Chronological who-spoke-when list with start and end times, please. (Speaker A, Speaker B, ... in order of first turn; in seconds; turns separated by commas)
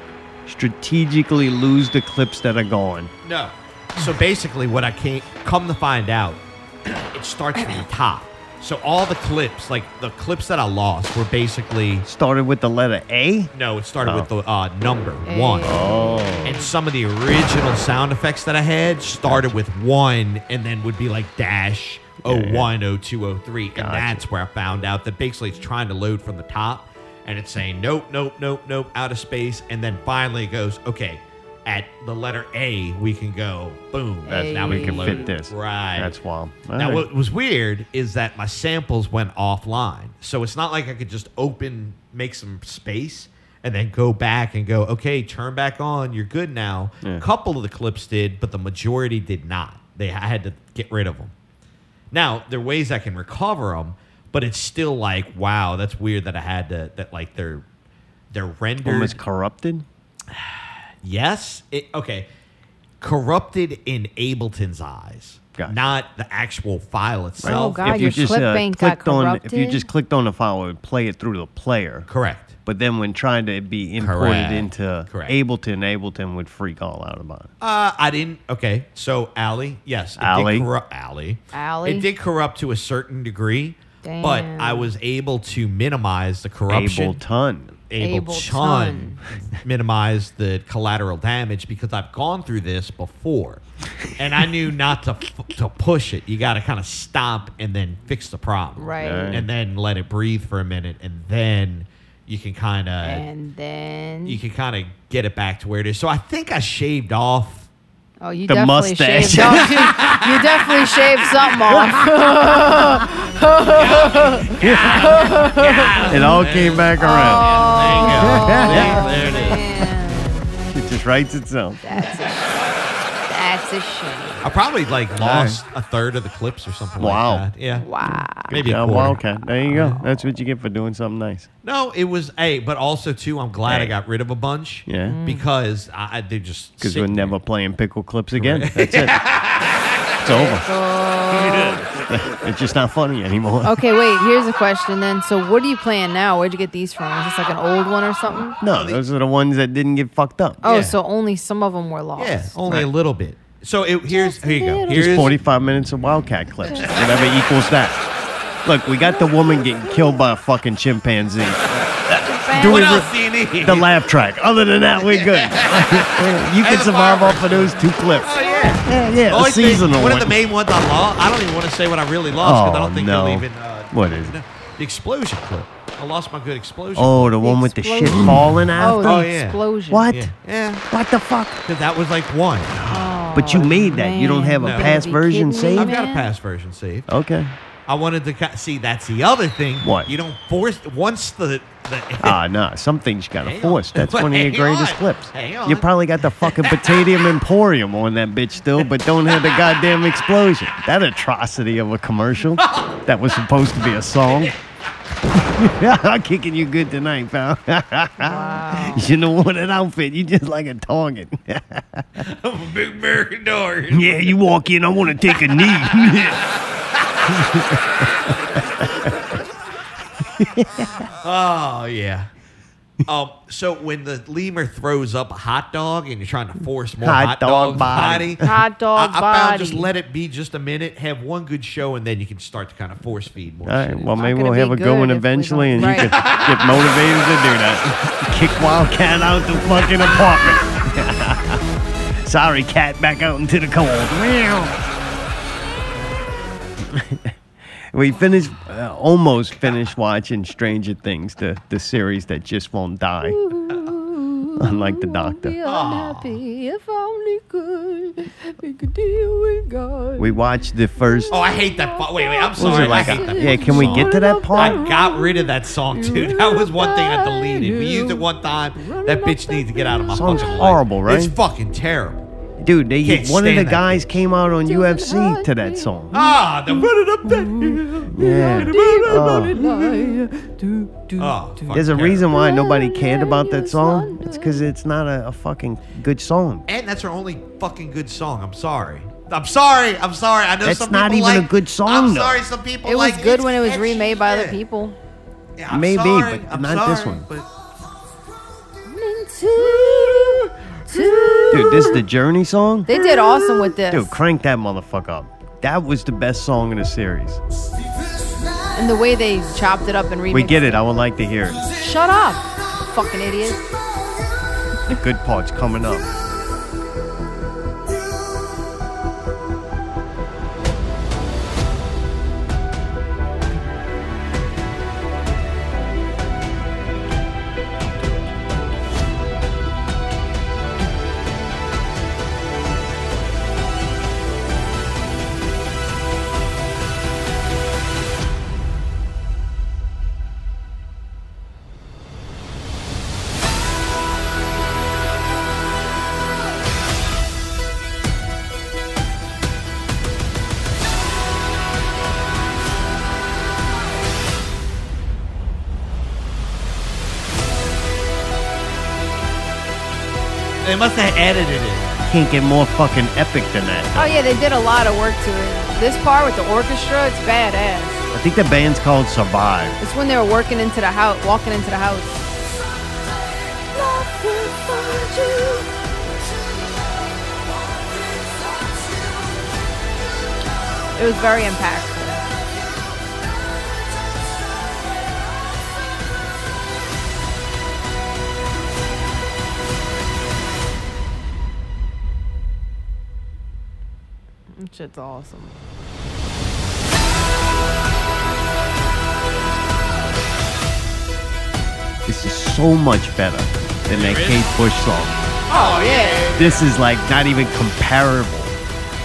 Speaker A: 0.5-3.1, Speaker B: 3.2-12.1, Speaker A: 12.1-13.5, Speaker B: 13.5-15.8, Speaker A: 14.0-14.3, Speaker C: 15.2-16.6, Speaker A: 15.6-16.6, Speaker B: 16.4-36.1, Speaker A: 22.2-22.7, Speaker A: 23.8-24.2, Speaker C: 34.3-35.3, Speaker A: 34.4-37.1, Speaker B: 36.8-51.3, Speaker B: 52.1-57.6, Speaker B: 58.3-59.2, Speaker A: 58.8-59.9, Speaker B: 60.3-62.3, Speaker B: 63.0-68.4, Speaker A: 67.4-72.1, Speaker C: 67.4-69.9, Speaker B: 72.1-72.6, Speaker A: 72.7-77.5, Speaker B: 74.0-75.4, Speaker B: 77.6-87.2, Speaker A: 80.2-80.7, Speaker C: 81.5-82.1, Speaker C: 84.0-84.9, Speaker A: 86.7-87.8, Speaker B: 87.9-93.6, Speaker C: 88.0-89.2, Speaker B: 94.2-103.2, Speaker C: 98.8-99.4, Speaker A: 99.0-99.5, Speaker C: 103.0-104.4, Speaker B: 104.3-107.7, Speaker C: 108.2-116.4, Speaker A: 108.5-109.9, Speaker B: 109.7-111.0, Speaker B: 113.7-119.6, Speaker A: 114.6-115.2, Speaker A: 116.1-119.1, Speaker C: 117.0-120.5, Speaker A: 120.7-121.8, Speaker C: 121.8-122.7, Speaker C: 123.3-124.5, Speaker B: 124.4-127.9, Speaker A: 125.2-125.6, Speaker A: 127.0-127.5, Speaker C: 127.8-128.5, Speaker A: 128.0-131.5, Speaker B: 128.5-130.1, Speaker B: 131.6-137.4, Speaker A: 133.7-134.0, Speaker A: 134.9-135.2, Speaker C: 135.1-135.4, Speaker A: 136.8-139.2, Speaker B: 138.3-140.1, Speaker A: 140.2-140.7, Speaker C: 140.2-141.8, Speaker B: 141.3-141.9, Speaker A: 142.1-143.8, Speaker C: 143.6-148.6, Speaker A: 148.6-150.6, Speaker B: 148.6-149.0, Speaker C: 150.6-152.5, Speaker B: 150.6-151.0, Speaker B: 152.2-155.3, Speaker C: 154.1-155.3, Speaker A: 154.9-158.0, Speaker C: 156.7-157.2, Speaker B: 156.9-157.5, Speaker A: 158.7-163.1, Speaker C: 159.0-160.2, Speaker C: 162.2-163.1, Speaker B: 162.6-163.9, Speaker A: 163.6-170.4, Speaker B: 165.0-177.4, Speaker C: 168.4-168.8, Speaker A: 172.3-174.4, Speaker A: 177.0-179.3, Speaker C: 177.4-180.1, Speaker B: 178.2-179.6, Speaker A: 179.9-180.3, Speaker B: 180.1-180.8, Speaker A: 180.9-181.6, Speaker B: 181.7-183.0, Speaker C: 182.9-186.3, Speaker A: 183.3-185.9, Speaker B: 184.6-184.9, Speaker B: 185.7-187.1, Speaker A: 187.1-187.5, Speaker B: 187.9-192.4, Speaker A: 189.8-190.1, Speaker A: 192.2-204.6, Speaker B: 193.4-197.3, Speaker B: 199.3-199.9, Speaker B: 202.6-203.0, Speaker B: 204.3-204.5, Speaker A: 205.3-212.2, Speaker C: 208.2-209.1, Speaker B: 212.2-214.4, Speaker A: 213.9-216.4, Speaker B: 215.2-218.3, Speaker A: 217.3-219.1, Speaker A: 220.2-221.1, Speaker B: 221.2-222.3, Speaker B: 223.1-234.2, Speaker A: 227.0-228.6, Speaker C: 228.4-229.9, Speaker A: 233.6-241.6, Speaker C: 234.2-236.1, Speaker B: 235.8-236.9, Speaker A: 242.2-244.8, Speaker A: 246.8-247.3, Speaker A: 247.9-253.4, Speaker C: 253.2-260.4, Speaker A: 254.6-255.6, Speaker B: 255.6-256.4, Speaker A: 260.2-261.4, Speaker C: 261.1-268.3, Speaker B: 261.3-272.3, Speaker A: 262.6-264.8, Speaker C: 268.8-270.1, Speaker A: 270.1-271.4, Speaker A: 272.6-276.1, Speaker B: 273.0-274.1, Speaker C: 274.6-284.7, Speaker B: 276.1-279.5, Speaker A: 278.1-279.7, Speaker B: 281.2-282.3, Speaker A: 281.7-286.7, Speaker B: 286.7-294.6, Speaker A: 290.6-292.4, Speaker C: 292.9-295.0, Speaker B: 295.6-297.5, Speaker A: 295.7-297.3, Speaker C: 298.9-302.0, Speaker B: 299.6-301.5, Speaker A: 301.5-303.0, Speaker C: 302.9-304.1, Speaker A: 303.9-307.4, Speaker C: 308.7-310.8, Speaker A: 310.3-311.7, Speaker C: 311.7-313.7, Speaker A: 314.9-316.1, Speaker B: 360.6-361.9, Speaker A: 362.1-364.2, Speaker C: 363.9-368.0, Speaker A: 368.1-369.8, Speaker C: 369.8-372.4, Speaker C: 373.7-375.7, Speaker C: 380.9-382.3, Speaker C: 394.6-395.5, Speaker A: 402.1-405.2, Speaker B: 403.9-404.6, Speaker B: 405.5-406.7, Speaker C: 405.5-406.3, Speaker A: 406.4-408.6